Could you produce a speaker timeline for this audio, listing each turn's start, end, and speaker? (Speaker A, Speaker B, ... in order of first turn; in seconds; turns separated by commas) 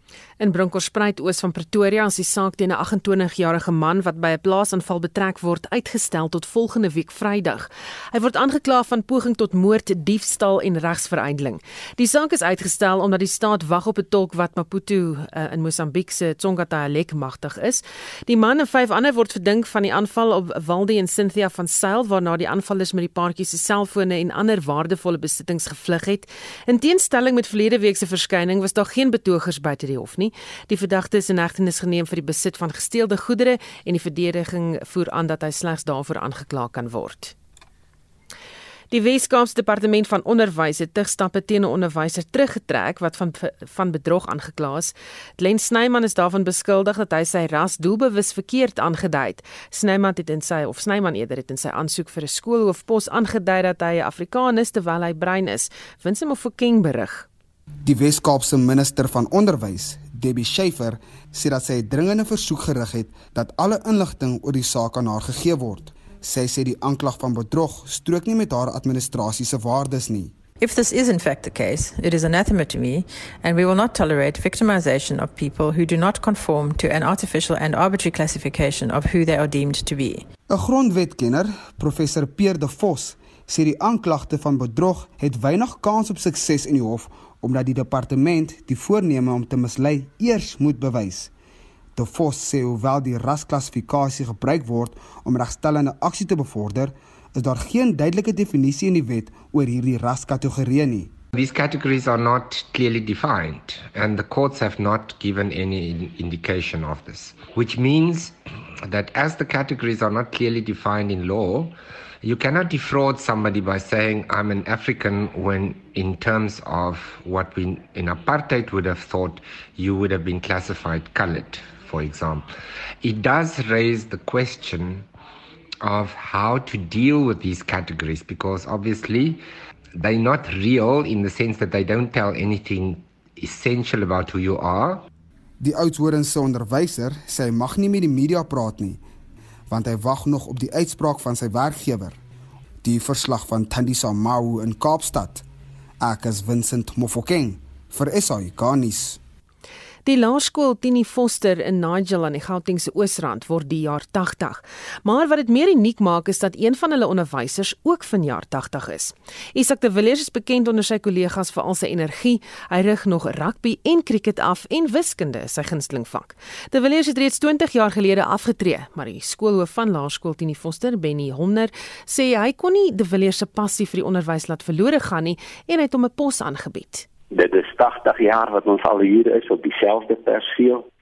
Speaker A: 0.4-37.3, Speaker A: 38.9-57.3, Speaker B: 57.8-70.3, Speaker C: 70.6-80.3, Speaker B: 80.5-91.3, Speaker B: 92.0-101.1, Speaker D: 101.3-108.3, Speaker D: 108.9-111.7, Speaker D: 112.2-122.4, Speaker D: 123.0-125.0, Speaker D: 125.8-129.4, Speaker D: 130.0-135.0, Speaker B: 135.6-139.0, Speaker B: 139.7-142.2, Speaker B: 142.8-145.4, Speaker B: 146.0-149.2, Speaker A: 150.0-177.1, Speaker E: 177.3-180.8